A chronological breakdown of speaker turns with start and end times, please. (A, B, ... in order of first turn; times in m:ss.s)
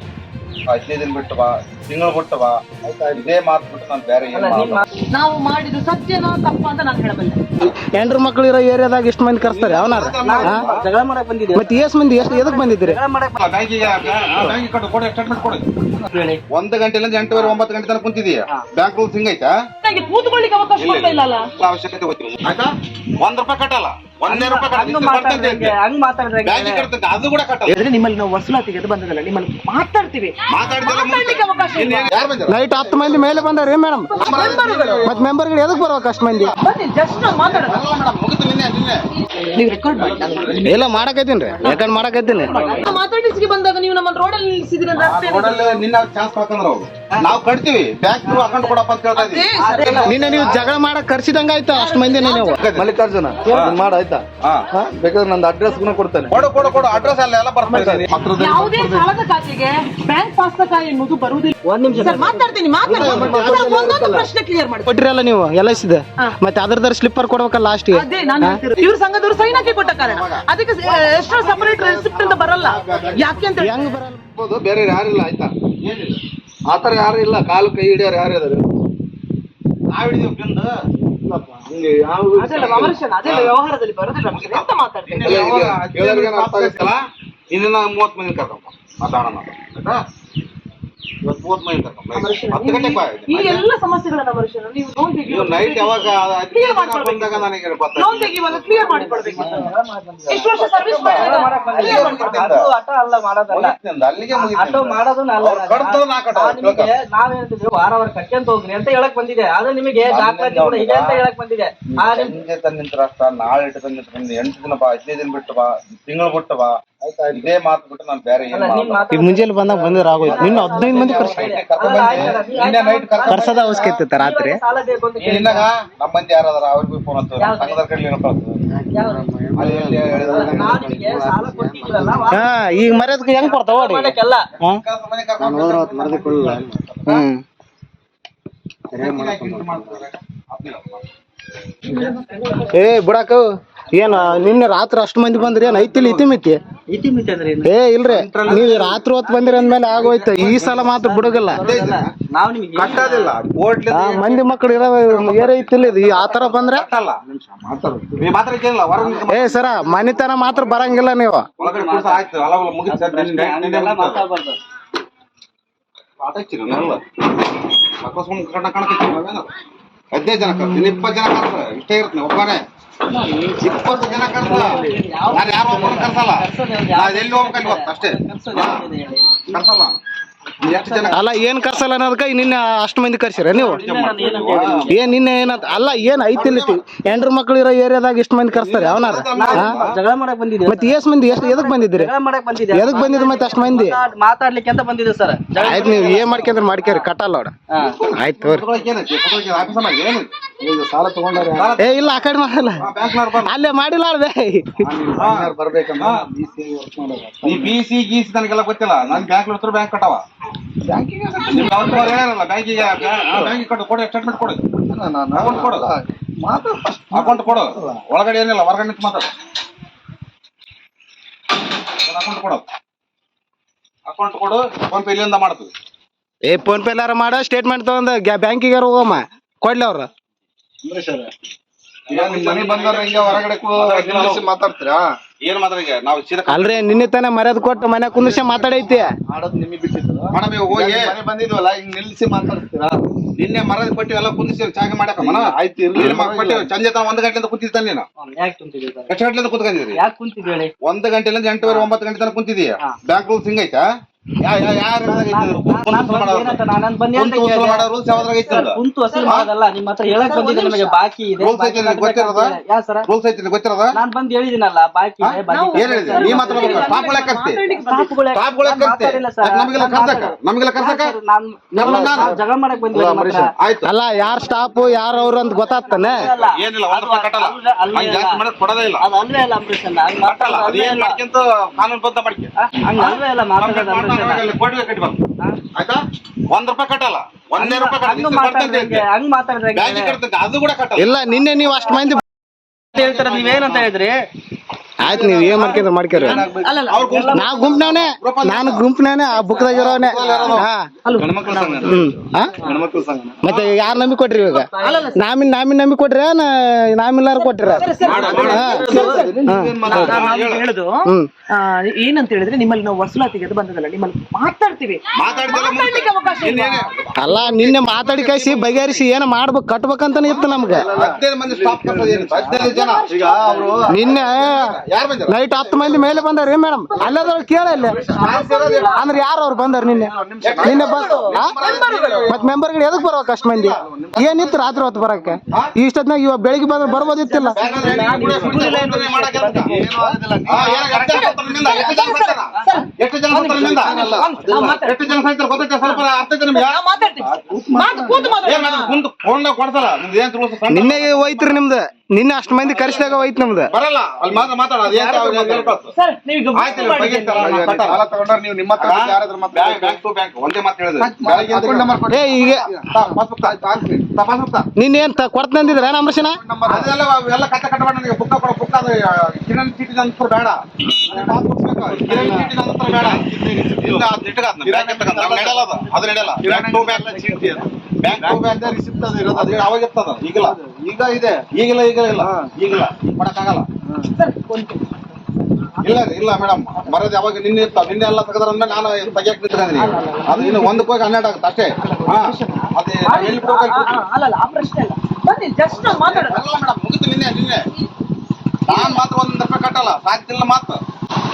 0:00.7-0:02.6 A
0:02.8-0:03.3 B
0:03.2-0:04.8 A
0:04.3-0:04.8 C
0:05.1-0:07.5 D
0:07.6-0:10.6 E
0:09.4-0:10.9 A
0:10.2-0:14.5 C
0:11.5-0:13.0 E
0:13.4-0:15.7 A
0:16.0-0:16.4 C
0:16.5-0:19.6 A
0:17.3-0:17.6 C
0:19.8-0:21.5 D
0:20.8-0:25.8 A
0:24.3-0:26.9 C
0:26.4-0:27.8 A
0:27.7-0:32.2 D
0:30.5-0:33.4 A
0:32.5-0:34.1 E
0:34.0-0:35.1 D
0:34.1-0:36.5 A
0:35.0-0:36.5 E
0:36.6-0:37.9 D
0:37.2-0:39.0 A
0:39.5-0:40.8 D
0:39.9-0:40.7 A
0:40.6-0:42.5 E
0:41.6-0:45.8 D
0:42.0-0:42.9 C
0:45.0-0:50.7 A
0:48.2-0:48.7 C
0:49.1-0:50.6 D
0:49.6-0:50.7 C
0:50.0-0:52.6 E
0:51.7-0:52.6 D
0:52.6-0:52.9 A
0:52.8-0:56.5 B
0:53.5-0:53.8 A
0:54.4-0:54.7 A
0:56.3-0:58.1 A
0:57.6-1:05.0 D
0:57.7-0:59.1 B
1:01.6-1:02.6 C
1:02.8-1:04.3 B
1:02.9-1:03.5 A
1:03.2-1:03.5 C
1:04.9-1:08.6 E
1:07.9-1:13.9 D
1:09.3-1:10.4 A
1:10.8-1:13.6 B
1:13.6-1:14.2 E
1:14.3-1:15.5 B
1:15.8-1:16.2 A
1:16.7-1:18.6 B
1:19.9-1:20.7 A
1:21.2-1:23.0 B
1:22.4-1:25.5 D
1:23.2-1:23.5 A
1:24.3-1:27.0 A
1:25.2-1:26.8 B
1:27.5-1:30.0 A
1:31.2-1:33.7 A
1:32.1-1:39.7 D
1:35.3-1:38.8 A
1:38.7-1:43.8 C
1:40.3-1:42.4 D
1:41.0-1:42.7 A
1:43.5-1:46.9 A
1:44.3-1:52.4 C
1:50.0-1:51.2 A
1:52.0-1:56.8 A
1:57.0-1:57.6 B
1:57.3-1:59.0 A
1:58.5-1:59.5 C
1:59.1-2:01.4 E
1:59.7-2:04.0 A
2:00.2-2:05.7 C
2:03.3-2:04.6 E
2:05.2-2:08.6 A
2:07.4-2:07.8 C
2:08.9-2:09.6 E
2:08.9-2:09.3 C
2:09.5-2:12.3 B
2:09.6-2:10.7 A
2:10.1-2:10.9 E
2:10.2-2:12.5 C
2:12.3-2:14.8 E
2:13.4-2:14.4 C
2:14.6-2:16.9 A
2:15.4-2:17.4 E
2:18.9-2:21.0 A
2:18.9-2:19.8 E
2:22.7-2:26.6 E
2:25.6-2:26.3 A
2:26.9-2:27.7 C
2:27.6-2:31.6 E
2:28.1-2:29.0 A
2:28.5-2:33.4 C
2:30.0-2:31.0 A
2:31.6-2:32.1 A
2:32.8-2:37.2 A
2:33.9-2:36.9 E
2:37.3-2:38.2 B
2:38.2-2:39.8 A
2:39.3-2:41.5 E
2:41.6-2:42.3 C
2:41.6-2:44.3 A
2:42.9-2:44.6 C
2:46.2-2:47.0 A
2:48.0-2:49.5 A
2:50.1-2:52.6 A
2:53.1-2:59.6 C
2:53.5-2:58.9 A
2:59.5-3:00.0 A
3:00.6-3:01.2 A
3:00.6-3:01.2 C
3:01.1-3:03.8 E
3:03.5-3:05.2 C
3:03.6-3:04.9 A
3:04.9-3:09.7 E
3:06.4-3:06.8 A
3:08.5-3:10.0 A
3:09.4-3:17.1 C
3:10.6-3:12.1 E
3:12.7-3:14.0 E
3:15.6-3:17.5 E
3:15.7-3:16.1 B
3:16.0-3:16.4 A
3:17.7-3:18.0 C
3:17.8-3:20.3 A
3:18.2-3:18.6 E
3:20.6-3:21.8 B
3:21.6-3:22.0 A
3:21.8-3:22.8 E
3:22.8-3:23.6 A
3:23.4-3:24.7 E
3:24.8-3:27.8 B
3:25.2-3:26.2 A
3:27.4-3:30.2 A
3:30.8-3:32.2 B
3:31.5-3:34.6 A
3:33.3-3:33.6 B
3:34.9-3:38.0 B
3:35.3-3:35.9 A
3:37.1-3:39.3 A
3:42.0-3:42.6 A
3:44.0-3:45.7 A
3:46.5-3:50.1 E
3:50.8-3:51.3 B
3:52.1-3:54.4 A
3:52.1-3:55.0 B
3:55.4-3:57.1 A
3:56.5-3:59.1 E
3:58.1-4:03.0 B
4:00.3-4:01.1 A
4:03.4-4:08.0 A
4:05.2-4:06.7 B
4:08.2-4:09.1 C
4:09.1-4:10.0 A
4:09.9-4:10.7 C
4:10.8-4:13.9 A
4:11.6-4:11.9 C
4:14.4-4:16.6 A
4:15.0-4:23.1 C
4:17.1-4:19.5 A
4:19.1-4:19.4 D
4:20.3-4:20.9 D
4:20.3-4:20.8 A
4:21.4-4:22.6 A
4:23.1-4:24.0 A
4:23.9-4:27.2 C
4:25.2-4:27.6 A
4:25.5-4:28.2 D
4:27.7-4:33.5 C
4:28.3-4:31.2 A
4:31.8-4:32.4 A
4:31.8-4:33.5 B
4:33.6-4:33.9 A
4:33.8-4:36.3 E
4:34.8-4:38.4 C
4:36.4-4:39.0 A
4:39.0-4:41.2 C
4:40.2-4:45.2 A
4:42.6-4:44.5 C
4:45.8-4:49.0 A
4:47.6-4:50.2 C
4:49.7-4:51.2 A
4:51.0-4:52.2 E
4:52.9-4:54.3 C
4:53.0-4:53.8 A
4:55.0-4:56.5 E
4:55.0-4:56.8 B
4:55.5-4:55.8 A
4:56.2-4:57.1 D
4:56.9-4:58.9 A
4:57.0-4:57.8 C
4:57.3-5:00.8 E
4:59.7-5:00.7 A
5:00.3-5:02.0 D
5:01.1-5:02.1 B
5:01.9-5:02.5 E
5:02.6-5:03.5 B
5:03.4-5:10.1 E
5:03.5-5:03.8 A
5:04.3-5:05.1 C
5:04.8-5:05.2 D
5:07.4-5:11.1 D
5:08.0-5:10.4 B
5:08.0-5:09.2 C
5:08.0-5:08.8 A
5:09.9-5:10.6 A
5:11.7-5:16.9 D
5:15.2-5:19.1 A
5:17.2-5:20.9 E
5:20.2-5:26.2 A
5:20.3-5:24.4 B
5:22.6-5:23.9 D
5:23.9-5:24.6 E
5:25.3-5:28.0 E
5:27.8-5:29.0 B
5:27.8-5:29.0 A
5:28.2-5:29.1 D
5:29.0-5:31.6 E
5:29.7-5:31.0 B
5:30.4-5:32.5 A
5:30.9-5:32.4 D
5:32.3-5:37.6 E
5:33.3-5:34.3 A
5:34.0-5:34.7 B
5:37.1-5:38.0 D
5:37.5-5:39.8 A
5:37.6-5:38.9 B
5:37.7-5:40.1 C
5:39.6-5:42.0 B
5:40.5-5:46.8 A
5:41.1-5:45.1 D
5:43.5-5:44.8 B
5:45.8-5:49.0 D
5:47.1-5:48.5 B
5:48.4-5:51.6 A
5:50.7-5:53.7 E
5:53.7-5:55.9 A
5:54.8-5:55.8 B
5:55.9-5:57.7 D
5:56.6-5:58.0 A
5:56.8-6:00.0 B
5:58.8-6:02.1 A
6:01.0-6:04.1 B
6:02.1-6:02.8 E
6:02.9-6:04.7 A
6:04.8-6:06.4 E
6:05.7-6:06.9 B
6:06.7-6:13.2 A
6:11.1-6:14.1 B
6:13.8-6:20.6 A
6:14.6-6:21.4 B
6:21.5-6:23.7 A
6:22.2-6:22.5 B
6:24.1-6:24.9 D
6:25.8-6:34.0 A
6:29.7-6:30.9 D
6:31.8-6:36.4 D
6:35.7-6:37.6 A
6:38.7-6:40.8 A
6:38.7-6:39.0 D